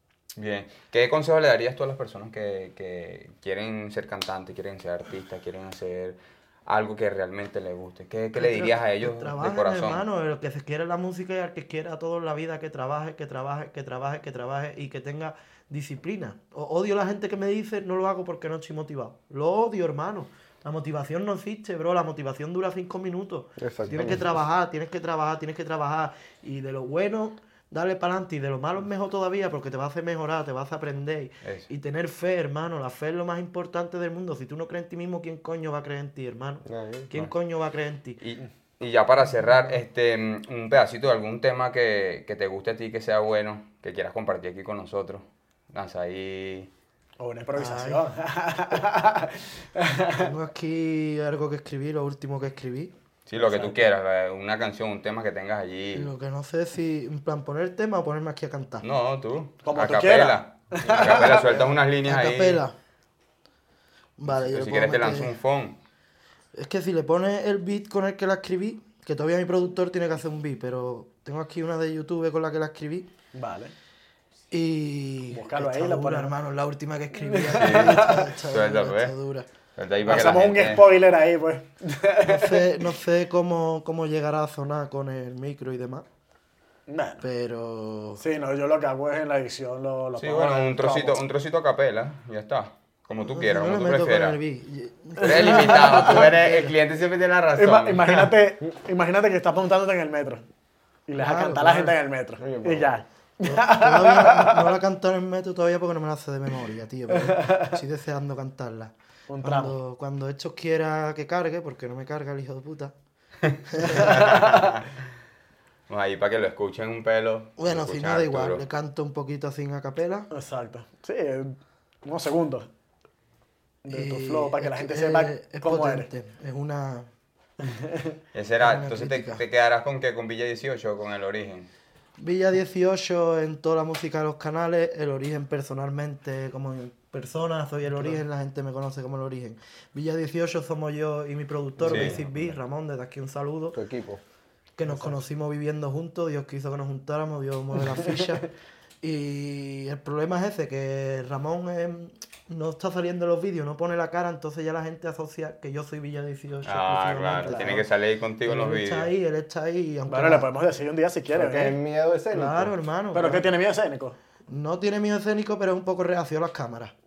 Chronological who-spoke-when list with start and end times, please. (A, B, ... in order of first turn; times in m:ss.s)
0:00.4-0:10.0 A
0:08.4-0:38.2 B
0:23.6-0:24.2 C
0:31.4-0:31.7 A
0:36.6-0:37.1 C
0:38.2-0:46.7 A
0:47.2-0:50.3 D
0:47.6-0:48.0 B
0:50.2-0:52.9 B
0:53.3-0:56.1 A
0:53.4-0:53.8 D
0:55.9-0:58.8 B
0:58.8-1:02.6 A
0:59.6-1:01.7 D
1:02.0-1:02.7 B
1:04.2-1:05.3 B
1:04.3-1:05.8 A
1:06.6-1:13.1 B
1:13.3-1:13.7 D
1:14.5-1:19.5 B
1:15.3-1:16.3 D
1:17.1-1:18.3 D
1:17.5-1:19.1 A
1:19.8-1:20.8 A
1:20.0-1:22.9 D
1:22.2-1:26.0 B
1:26.9-1:27.2 D
1:27.2-1:28.2 B
1:28.2-1:31.2 D
1:30.2-1:34.4 A
1:33.2-1:36.7 B
1:35.2-1:38.3 A
1:35.2-1:36.2 D
1:37.6-1:40.4 D
1:41.1-1:44.7 D
1:41.2-1:42.0 B
1:42.4-1:42.9 C
1:43.4-1:52.9 B
1:47.1-1:47.8 D
1:49.3-1:49.7 D
1:53.7-1:54.4 B
1:54.0-1:54.9 A
1:54.0-1:54.7 D
1:55.9-1:58.6 A
1:57.6-2:00.3 B
2:00.3-2:02.7 D
2:03.8-2:06.1 D
2:03.9-2:07.1 B
2:07.6-2:08.2 D
2:08.3-2:11.7 A
2:08.6-2:09.4 B
2:12.2-2:23.8 B
2:21.8-2:22.5 A
2:23.7-2:24.2 C
2:24.8-2:28.5 B
2:24.9-2:25.2 D
2:29.0-2:37.9 B
2:36.6-2:39.1 A
2:37.4-2:37.8 D
2:38.4-2:40.5 B
2:40.1-2:41.8 D
2:41.3-2:42.7 C
2:42.3-2:43.5 B
2:43.1-2:44.2 D
2:44.5-2:46.9 B